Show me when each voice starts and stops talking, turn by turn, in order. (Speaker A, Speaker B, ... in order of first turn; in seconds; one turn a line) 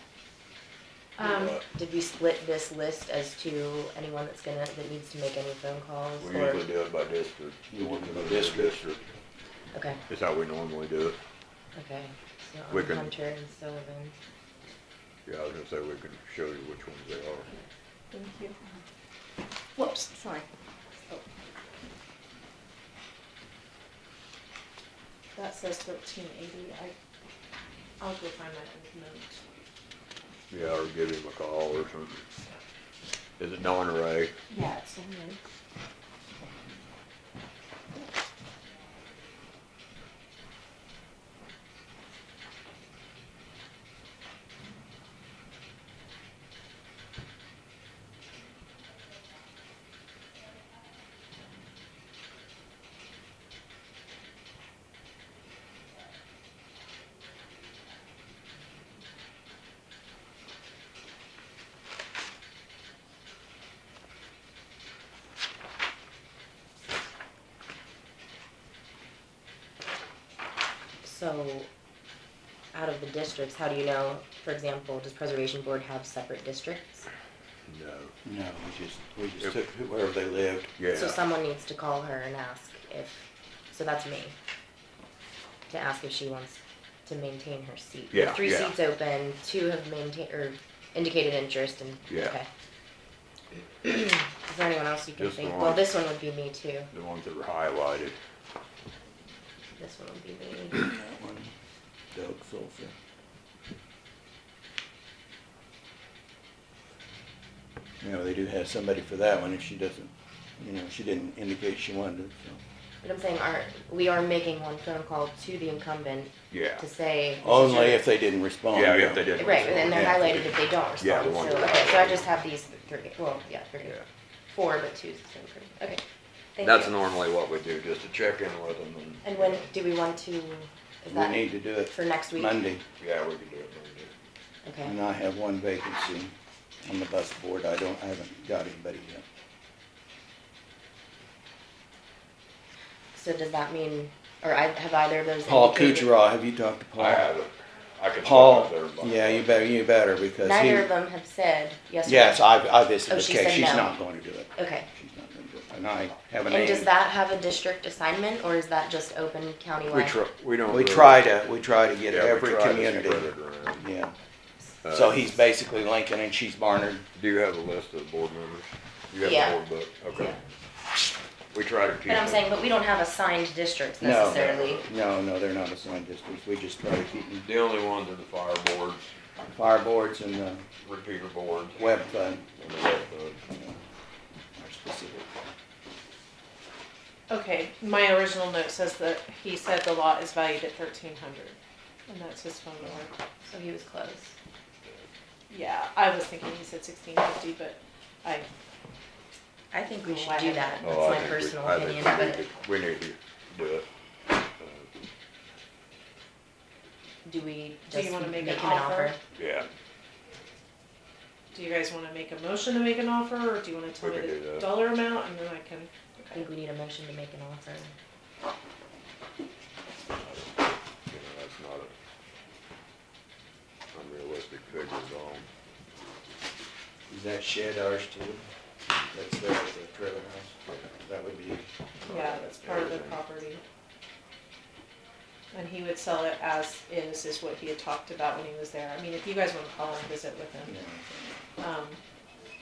Speaker A: 1.2-1.6
Speaker B: 1.2-1.6
Speaker C: 1.7-6.6
Speaker B: 6.2-9.0
Speaker D: 7.7-8.8
Speaker C: 9.7-10.0
Speaker B: 10.1-11.2
Speaker C: 11.7-14.1
Speaker B: 12.7-13.1
Speaker B: 15.2-17.5
Speaker A: 18.1-18.6
Speaker A: 19.8-20.5
Speaker A: 25.3-26.9
Speaker A: 28.0-29.4
Speaker B: 30.5-32.2
Speaker B: 33.4-34.3
Speaker A: 34.5-35.4
Speaker C: 71.0-71.7
Speaker C: 72.7-77.0
Speaker B: 77.7-78.1
Speaker D: 78.2-80.7
Speaker B: 80.8-81.2
Speaker C: 80.9-84.3
Speaker C: 85.7-92.5
Speaker B: 88.1-88.7
Speaker B: 92.1-92.3
Speaker C: 93.8-96.9
Speaker B: 95.2-95.9
Speaker B: 96.9-98.2
Speaker C: 99.8-100.8
Speaker D: 100.7-101.5
Speaker D: 102.1-102.9
Speaker D: 108.0-112.6
Speaker C: 113.0-118.0
Speaker B: 116.5-116.8
Speaker D: 117.4-120.2
Speaker B: 118.7-122.2
Speaker C: 119.4-124.0
Speaker C: 124.5-126.0
Speaker C: 126.5-127.0
Speaker B: 126.6-129.7
Speaker C: 129.2-132.7
Speaker D: 131.1-132.8
Speaker B: 133.0-134.1
Speaker C: 134.6-134.9
Speaker D: 134.8-139.2
Speaker C: 143.1-146.1
Speaker D: 145.4-147.3
Speaker B: 147.0-149.4
Speaker D: 148.2-150.9
Speaker C: 150.4-152.4
Speaker D: 152.0-156.9
Speaker C: 153.1-153.9
Speaker C: 154.5-154.9
Speaker C: 156.5-160.2
Speaker B: 159.9-161.2
Speaker D: 160.7-164.1
Speaker B: 162.1-163.8
Speaker B: 164.8-165.3
Speaker D: 164.9-167.1
Speaker B: 167.1-170.4
Speaker C: 169.2-170.4
Speaker B: 171.5-172.6
Speaker C: 172.1-174.8
Speaker D: 174.0-177.5
Speaker B: 174.3-174.7
Speaker B: 177.4-179.1
Speaker D: 179.5-180.7
Speaker B: 180.8-181.9
Speaker D: 181.8-182.5
Speaker B: 182.5-183.4
Speaker D: 183.5-183.8
Speaker D: 184.6-185.2
Speaker A: 187.3-193.1
Speaker C: 193.4-194.3
Speaker A: 195.5-198.5
Speaker C: 199.7-202.4
Speaker A: 200.0-201.2
Speaker B: 200.8-203.8
Speaker B: 204.6-204.9
Speaker C: 207.2-209.2
Speaker A: 207.9-209.2
Speaker B: 209.3-209.7
Speaker A: 211.5-216.4
Speaker B: 214.0-214.7
Speaker C: 216.3-217.9
Speaker B: 220.2-220.5
Speaker B: 221.1-221.9
Speaker B: 223.9-225.5
Speaker D: 227.1-228.4
Speaker D: 229.1-231.7
Speaker B: 232.0-233.2
Speaker A: 232.1-233.6
Speaker A: 235.5-240.8
Speaker D: 240.7-241.3
Speaker A: 241.6-242.0